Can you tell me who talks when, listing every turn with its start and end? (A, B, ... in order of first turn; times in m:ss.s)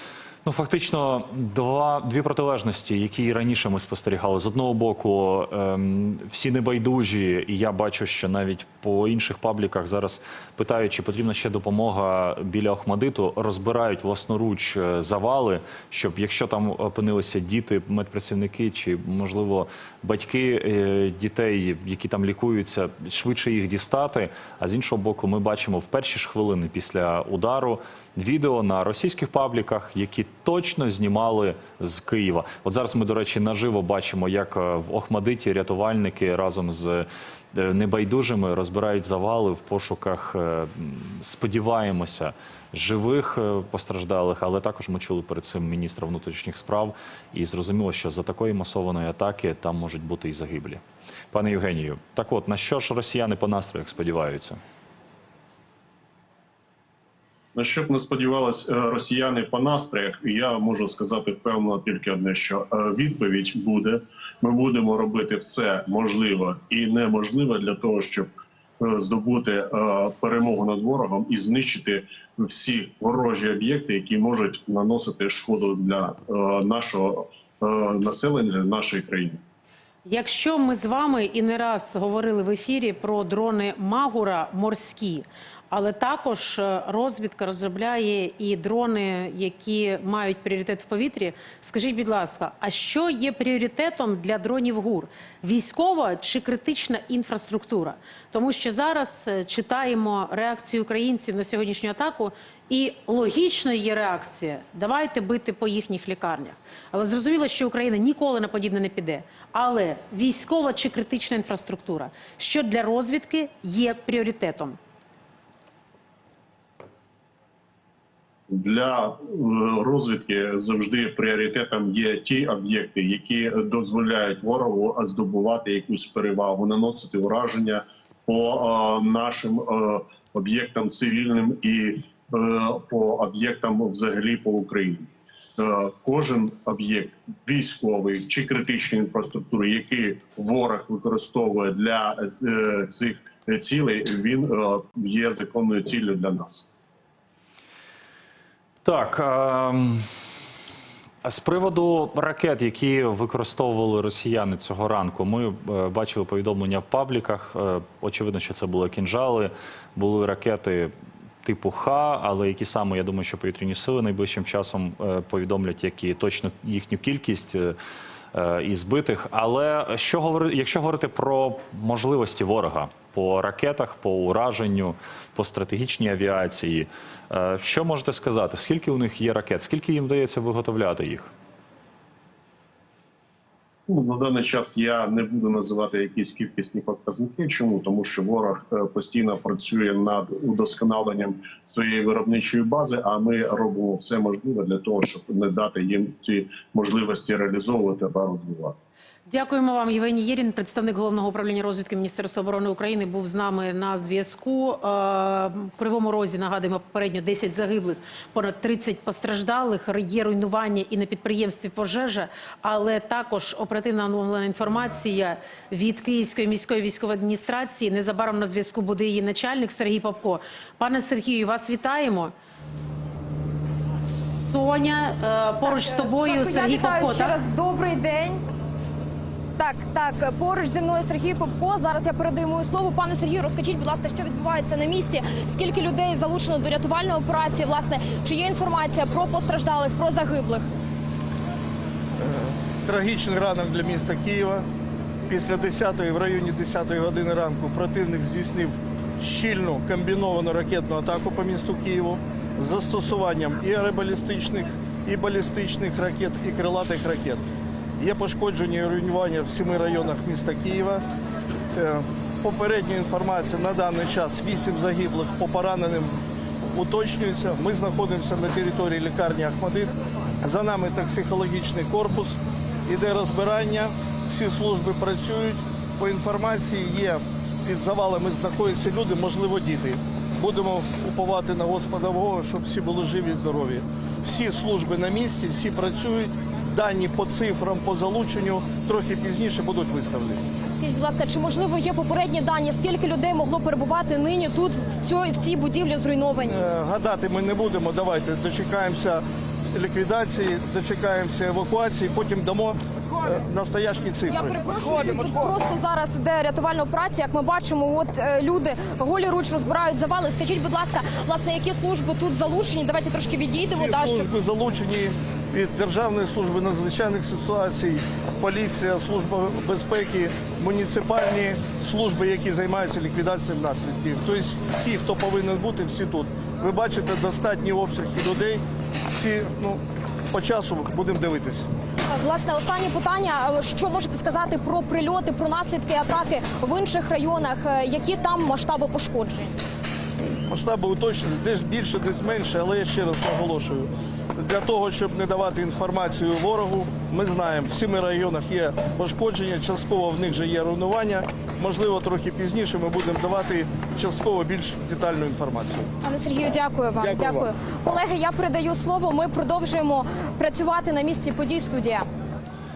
0:00.4-0:54.6 A
0:57.6-1:19.4 B
1:20.0-1:54.8 C
1:58.5-2:26.7 B
2:28.8-2:30.0 A
2:31.2-2:40.9 A
2:41.4-2:47.8 A
2:48.3-3:01.3 A
3:03.9-3:18.8 B
3:19.3-3:42.3 C
3:44.0-3:47.4 C
3:45.6-3:48.4 D
3:49.6-4:00.7 D
4:02.2-4:04.6 E
4:05.3-4:17.4 E
4:18.0-4:21.0 E
4:21.8-4:26.2 E
4:26.8-4:50.4 E
4:50.8-4:56.7 D
4:56.4-5:04.6 E
5:04.3-5:14.3 D
5:13.7-5:28.6 E
5:29.1-5:31.7 E
5:32.1-5:39.6 D
5:40.5-5:55.9 E
5:56.0-6:02.1 D
5:57.0-5:57.5 E